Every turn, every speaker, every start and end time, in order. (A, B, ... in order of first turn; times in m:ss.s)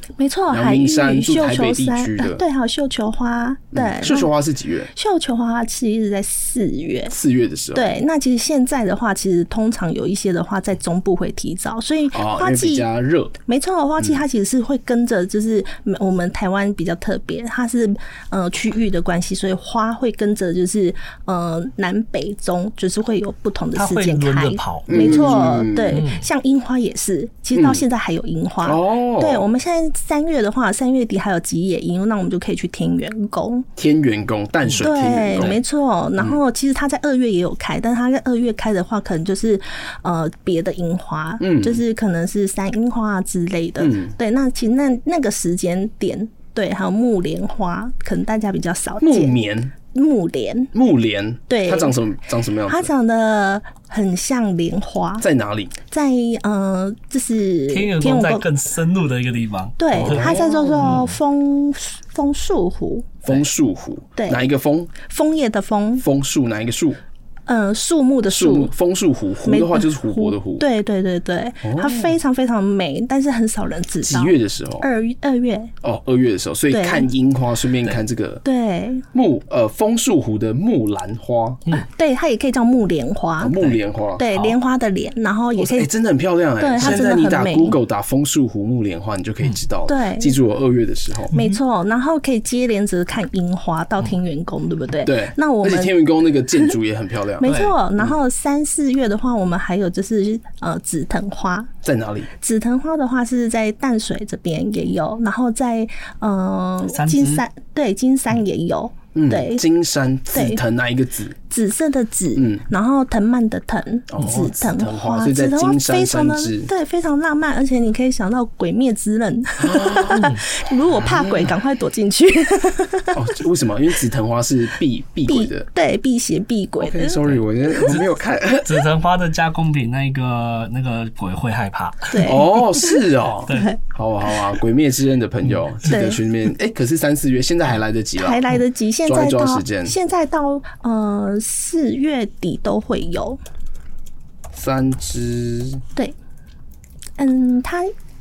0:00.2-0:04.3 A
0:00.5-0:02.4 B
0:03.7-0:04.9 B
0:04.9-0:07.1 A
0:07.1-0:08.0 B
0:07.7-0:12.9 A
0:12.1-0:13.3 B
0:13.4-0:33.7 A
0:23.7-0:26.2 C
0:24.9-0:26.0 B
0:27.5-0:27.8 B
0:28.6-0:29.5 B
0:33.8-0:35.6 B
0:34.8-0:50.7 A
0:41.4-0:41.8 B
0:43.8-0:44.2 B
0:49.0-0:49.7 B
0:50.7-0:52.9 B
0:51.5-0:52.0 A
0:52.7-0:55.2 A
0:55.2-0:55.8 B
0:55.9-0:58.5 A
0:57.7-1:01.1 C
0:59.8-1:03.1 A
1:00.0-1:01.0 B
1:03.2-1:04.9 B
1:04.2-1:04.5 A
1:05.0-1:06.0 A
1:06.0-1:07.0 B
1:07.4-1:08.7 A
1:08.3-1:10.6 B
1:09.4-1:15.7 A
1:11.6-1:12.2 B
1:14.0-1:14.8 B
1:15.8-1:18.4 B
1:16.7-1:17.1 A
1:18.4-1:19.0 A
1:19.1-1:21.6 B
1:21.7-1:23.6 A
1:23.4-1:24.5 B
1:24.2-1:25.9 A
1:25.5-1:31.3 B
1:26.6-1:27.8 A
1:29.9-1:30.4 A
1:31.3-1:31.6 C
1:31.3-1:36.0 A
1:35.0-1:38.2 B
1:37.4-1:41.7 A
1:37.4-1:37.8 C
1:41.8-1:42.3 B
1:42.4-1:49.6 A
1:46.9-1:47.4 C
1:49.1-1:51.4 B
1:50.3-1:50.6 A
1:51.5-2:03.2 A
1:52.4-1:52.6 B
1:54.1-1:56.7 B
1:59.6-2:00.3 B
2:00.1-2:00.4 C
2:01.0-2:01.5 B
2:03.1-2:05.7 B
2:05.3-2:07.9 A
2:06.8-2:08.9 B
2:07.3-2:08.0 C
2:08.6-2:12.4 C
2:12.1-2:13.0 A
2:12.2-2:18.5 B
2:13.5-2:13.8 A
2:15.9-2:16.2 A
2:18.2-2:23.4 A
2:19.0-2:19.9 B
2:24.5-2:25.8 B
2:27.2-2:27.9 A